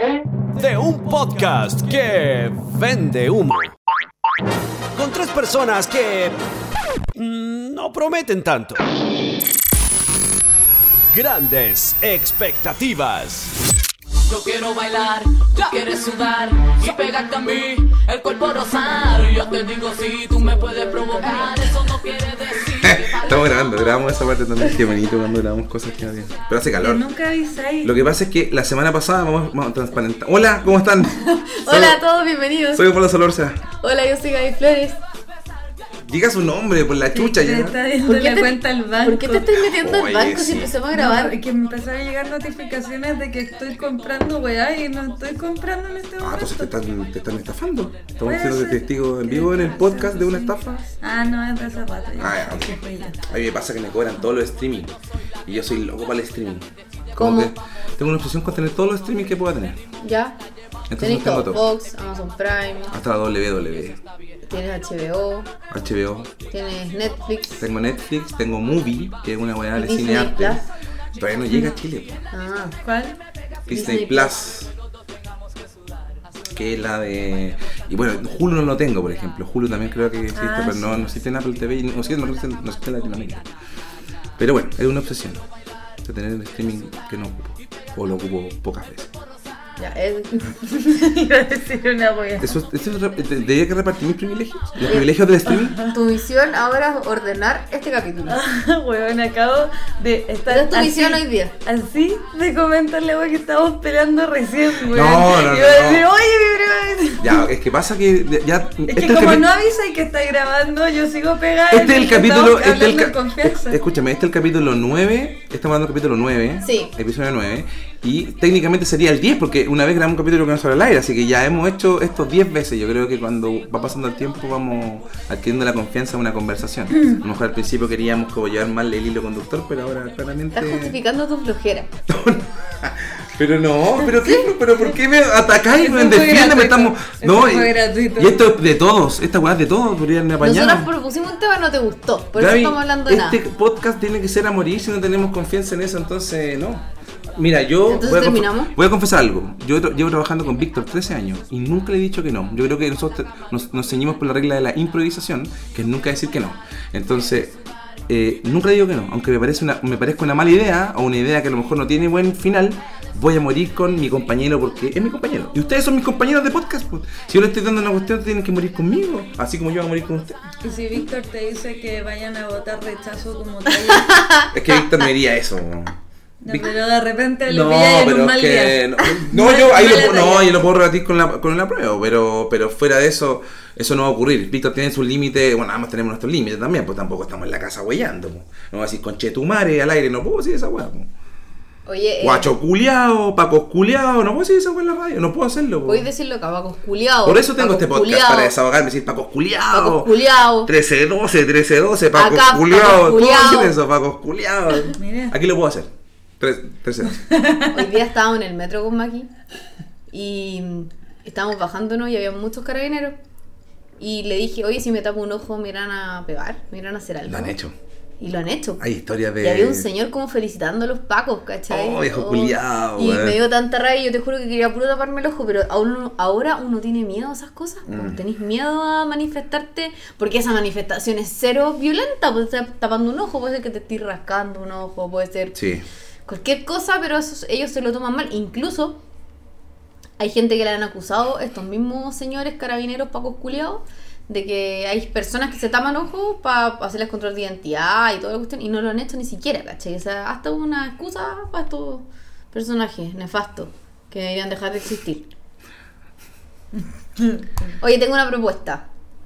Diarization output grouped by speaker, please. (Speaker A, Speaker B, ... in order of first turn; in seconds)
Speaker A: 0.5-3.8, 5.0-6.4, 7.2-8.9, 11.1-13.5
Speaker B: 14.3-23.7
Speaker C: 22.8-27.1, 27.8-32.0, 32.7-33.6, 36.0-37.8, 39.6-40.7, 46.2-50.9, 52.2-59.8, 60.9-61.7, 62.9-64.0, 65.7-66.3, 67.6-70.6, 71.2-72.2, 73.7-74.7, 76.5-83.5, 84.4-85.5, 86.0-89.1, 92.4-95.8, 104.9-106.1, 107.2-109.5, 111.7-131.0, 132.1-140.9, 142.3-157.6, 158.1-170.4, 174.5-175.9, 176.5-176.7, 177.4-191.1, 192.2-196.1, 197.2-207.2, 217.3-217.8, 218.8-219.9, 221.7-223.4, 227.9-228.2, 235.6-235.8
Speaker D: 26.8-27.9, 37.1-39.5, 40.9-46.7, 48.2-53.2, 71.5-71.8, 72.8-73.2, 80.3-81.1, 90.6-92.5, 95.5-96.0, 98.3-107.5, 108.9-113.8, 135.8-138.4, 170.6-174.3, 176.4-180.5, 205.0-205.4, 207.1-207.9
Speaker E: 31.1-32.9, 33.8-35.0, 38.0-41.4, 57.1-57.5, 60.0-60.4, 61.0-62.9, 64.5-65.5, 66.5-67.6, 69.7-70.7, 72.3-72.8, 73.7-74.4, 89.8-90.6, 94.8-95.1, 95.9-98.4, 100.5-101.5, 116.6-116.9, 130.5-131.9, 140.4-143.4, 147.9-148.7, 173.9-174.8, 191.9-192.5, 195.9-198.6, 199.7-200.7, 202.2-203.8, 207.7-209.3, 210.1-213.2, 214.0-217.6, 218.2-218.8, 219.4-235.6, 236.3-239.0, 240.2-255.3, 257.8-258.8